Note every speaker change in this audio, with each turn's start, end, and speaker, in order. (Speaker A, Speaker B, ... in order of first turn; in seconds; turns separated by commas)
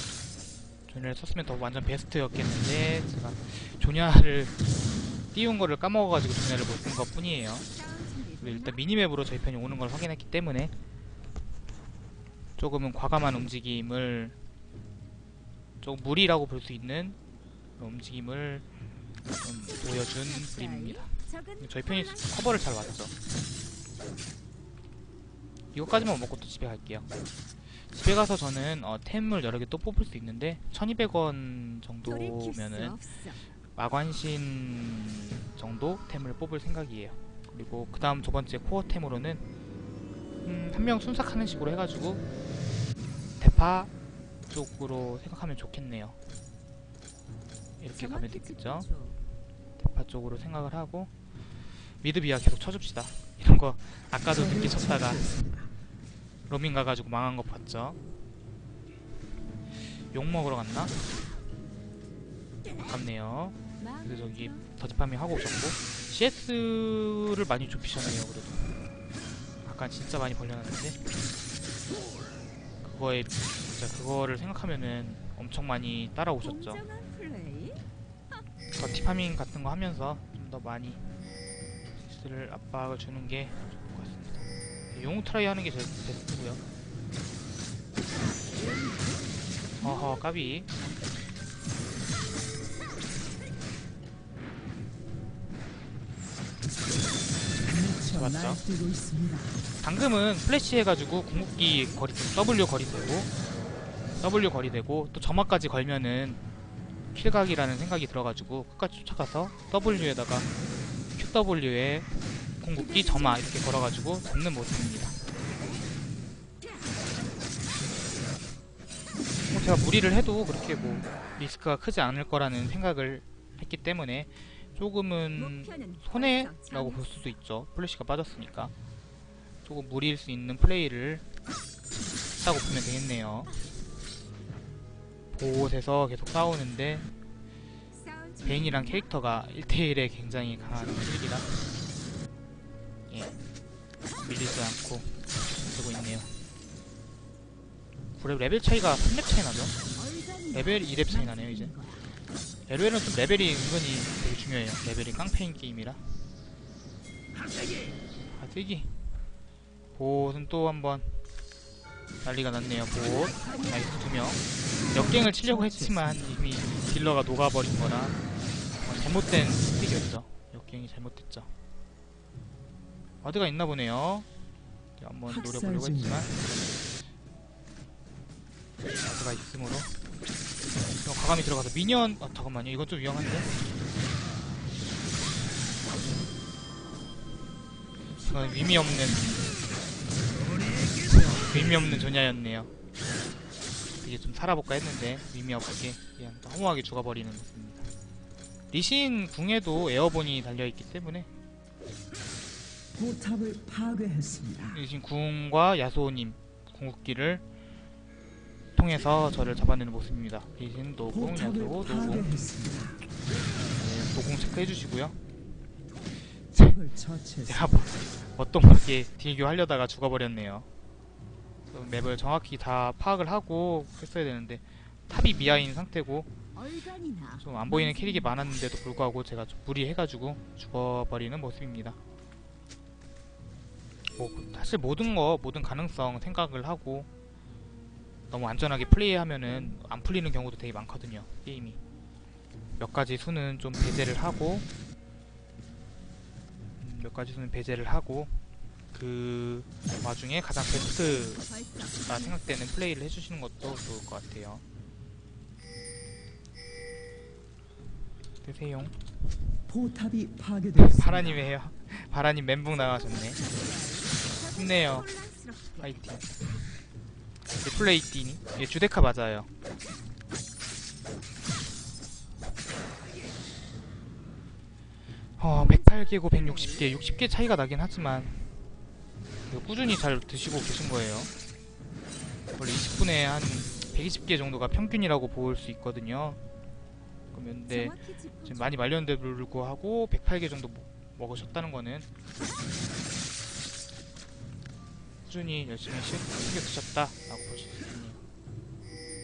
Speaker A: 0.9-4.5, Speaker A: 5.3-7.7, Speaker B: 7.7-8.8, Speaker A: 8.4-10.7, Speaker A: 12.6-14.3, Speaker A: 15.8-17.2, Speaker A: 17.8-18.6, Speaker A: 19.4-23.1, Speaker B: 19.6-22.6, Speaker A: 25.7-27.1, Speaker A: 27.9-33.0, Speaker B: 32.0-33.4, Speaker A: 33.8-39.4, Speaker A: 40.4-42.2, Speaker A: 43.4-43.9, Speaker A: 44.5-46.1, Speaker A: 47.8-48.9, Speaker B: 47.9-49.2, Speaker A: 49.8-51.1, Speaker A: 52.0-55.3, Speaker C: 54.3-55.7, Speaker A: 56.5-58.0, Speaker A: 60.1-61.1, Speaker A: 62.8-68.8, Speaker B: 63.8-64.6, Speaker A: 69.6-71.0, Speaker A: 72.8-76.8, Speaker B: 76.4-77.8, Speaker A: 78.7-81.0, Speaker A: 82.0-86.6, Speaker B: 88.5-90.8, Speaker A: 89.8-90.7, Speaker C: 97.6-99.6, Speaker A: 98.1-98.6, Speaker A: 99.8-103.3, Speaker B: 101.3-102.2, Speaker A: 104.2-106.4, Speaker A: 107.1-110.5, Speaker A: 111.2-112.1, Speaker A: 112.6-115.2, Speaker B: 112.8-113.8, Speaker A: 119.5-128.7, Speaker B: 125.3-127.3, Speaker A: 129.6-131.2, Speaker A: 132.4-133.5, Speaker A: 135.3-137.1, Speaker B: 137.9-139.1, Speaker A: 138.4-141.6, Speaker A: 143.1-143.4, Speaker A: 144.2-146.3, Speaker A: 148.1-149.8, Speaker B: 149.9-152.0, Speaker A: 150.5-151.7, Speaker A: 152.7-156.0, Speaker A: 158.3-159.1, Speaker A: 159.9-161.2, Speaker A: 162.2-164.4, Speaker A: 164.9-168.2, Speaker C: 164.9-166.3, Speaker A: 168.8-171.5, Speaker A: 173.2-174.3, Speaker A: 175.0-176.7, Speaker C: 175.3-176.3, Speaker A: 179.1-179.9, Speaker A: 181.0-183.6, Speaker B: 188.2-189.7, Speaker A: 188.2-189.4, Speaker A: 191.1-192.7, Speaker A: 194.0-197.9, Speaker A: 198.7-201.3, Speaker C: 202.9-204.8, Speaker A: 204.7-207.4, Speaker A: 208.8-212.3, Speaker C: 211.1-213.0, Speaker A: 213.7-215.2, Speaker A: 216.5-216.8, Speaker C: 216.6-217.9, Speaker A: 217.5-220.7, Speaker A: 221.7-226.3, Speaker B: 226.5-228.4, Speaker A: 227.4-232.0, Speaker A: 234.2-237.1, Speaker A: 238.3-241.8, Speaker A: 242.8-244.7, Speaker A: 246.8-248.3, Speaker A: 248.9-251.4, Speaker B: 250.7-252.4, Speaker A: 252.0-254.6, Speaker A: 258.4-259.1, Speaker C: 259.7-261.5, Speaker A: 260.8-263.4, Speaker B: 262.7-266.0, Speaker A: 264.5-265.1, Speaker A: 265.8-266.3, Speaker A: 267.6-269.5, Speaker A: 275.4-278.5, Speaker B: 275.5-276.9, Speaker A: 279.5-281.3, Speaker A: 282.6-286.4, Speaker A: 287.3-292.1, Speaker B: 287.7-288.8, Speaker A: 295.2-298.2